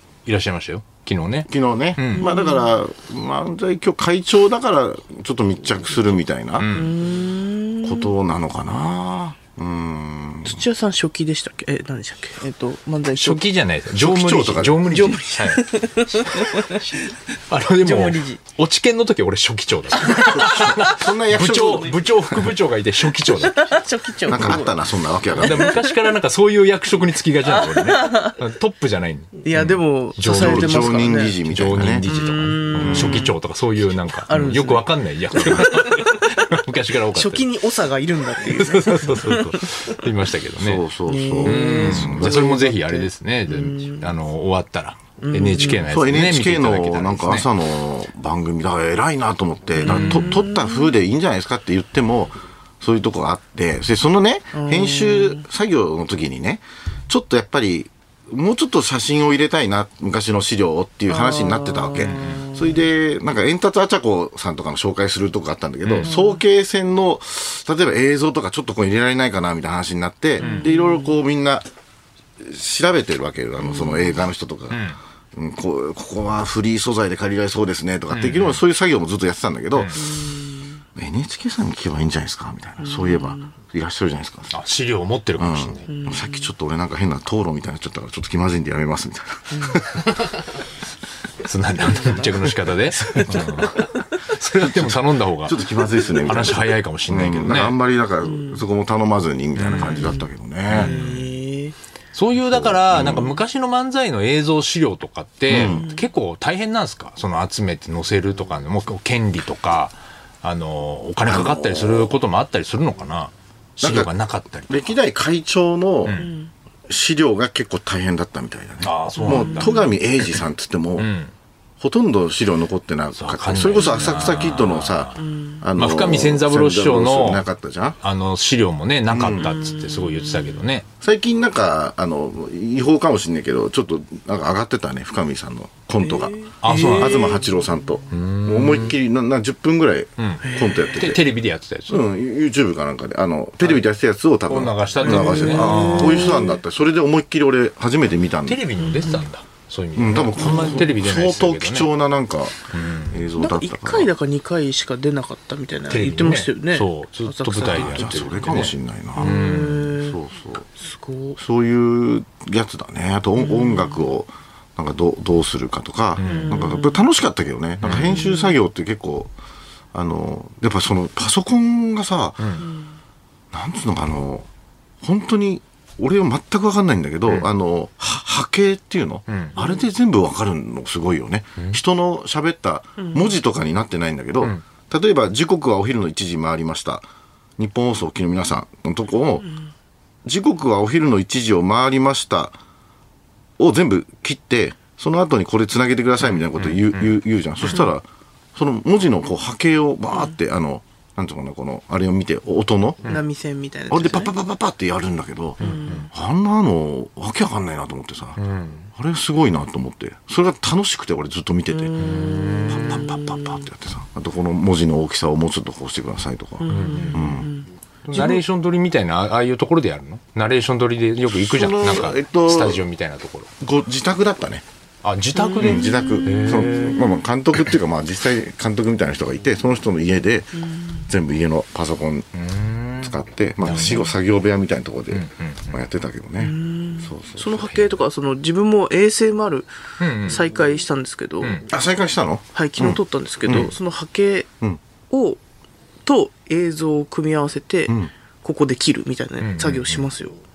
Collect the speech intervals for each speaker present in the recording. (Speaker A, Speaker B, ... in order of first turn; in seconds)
Speaker A: 0.3-2.3, 6.6-6.9, 13.2-15.7, 17.5-23.8, 25.3-37.5, 38.4-40.9, 41.4-47.5, 49.9-50.4, 62.0-62.5, 65.8-66.1, 70.4-70.7, 74.7-75.0, 78.1-78.6, 79.7-80.0, 84.5-85.9, 91.4-97.8, 99.6-101.3, 102.1-114.9, 116.0-116.3, 118.8-119.9, 121.0-121.3, 123.2-125.2, 125.8-127.4, 128.0-130.9, 136.6-137.4, 138.1-139.0, 140.2-142.1, 144.5-146.4, 148.4-151.9, 152.7-153.3, 155.9-159.9, 166.2-166.7, 167.8-168.2, 179.3-179.6, 196.3-197.9, 205.6-206.1, 208.4-208.9, 212.0-213.5, 216.7-217.4, 218.1-223.5, 225.0-227.1, 232.3-234.1, 235.1-235.8, 240.0-240.4, 249.4-250.1
Speaker B: 1.5-6.7, 7.8-10.6, 13.9-14.9, 20.3-22.4, 24.3-25.8, 30.2-32.1, 32.7-33.3, 35.4-35.7, 40.6-42.4, 45.9-71.7, 72.4-80.0, 81.0-84.5, 85.4-90.0, 94.6-101.0, 102.4-103.4, 105.5-105.9, 111.2-112.2, 113.8-114.1, 114.7-116.2, 116.9-121.1, 121.8-128.0, 129.1-129.5, 131.0-141.3, 141.9-148.7, 150.0-154.1, 157.6-160.7, 161.4-169.3, 169.9-172.6, 173.5-174.5, 175.0-187.1, 187.6-189.5, 190.2-192.6, 193.6-203.0, 203.9-208.4, 208.9-212.0, 212.7-217.5, 221.3-222.8, 223.6-224.6, 225.6-232.3, 233.0-237.7, 241.7-243.7
Speaker C: 2.1-2.7, 6.7-8.1, 10.4-13.5, 14.8-17.2, 17.8-18.4, 23.4-24.8, 25.4-26.1, 27.4-28.4, 29.4-31.4, 32.0-33.3, 34.3-36.3, 37.1-40.0, 41.1-44.1, 45.2-45.9, 49.8-50.9, 54.5-55.5, 61.1-62.8, 66.0-66.4, 70.4-71.2, 73.7-74.1, 79.9-80.8, 82.8-83.5, 85.9-86.5, 89.5-89.8, 91.8-94.0, 98.2-98.6, 99.8-101.7, 105.6-106.0, 116.1-116.5, 119.2-120.0, 123.8-124.1, 125.2-125.6, 129.4-130.6, 136.0-137.7, 140.4-141.0, 145.0-146.6, 148.8-149.3, 150.4-150.8, 153.4-160.2, 160.8-161.4, 163.4-164.0, 166.2-167.1, 167.9-168.6, 172.6-173.0, 179.6-179.8, 183.0-183.3, 203.1-204.3, 205.6-206.1, 211.7-213.7, 216.6-218.3, 225.3-227.2, 230.6-231.0, 236.4-241.6, 242.6-244.5, 245.1-245.4, 246.1-250.4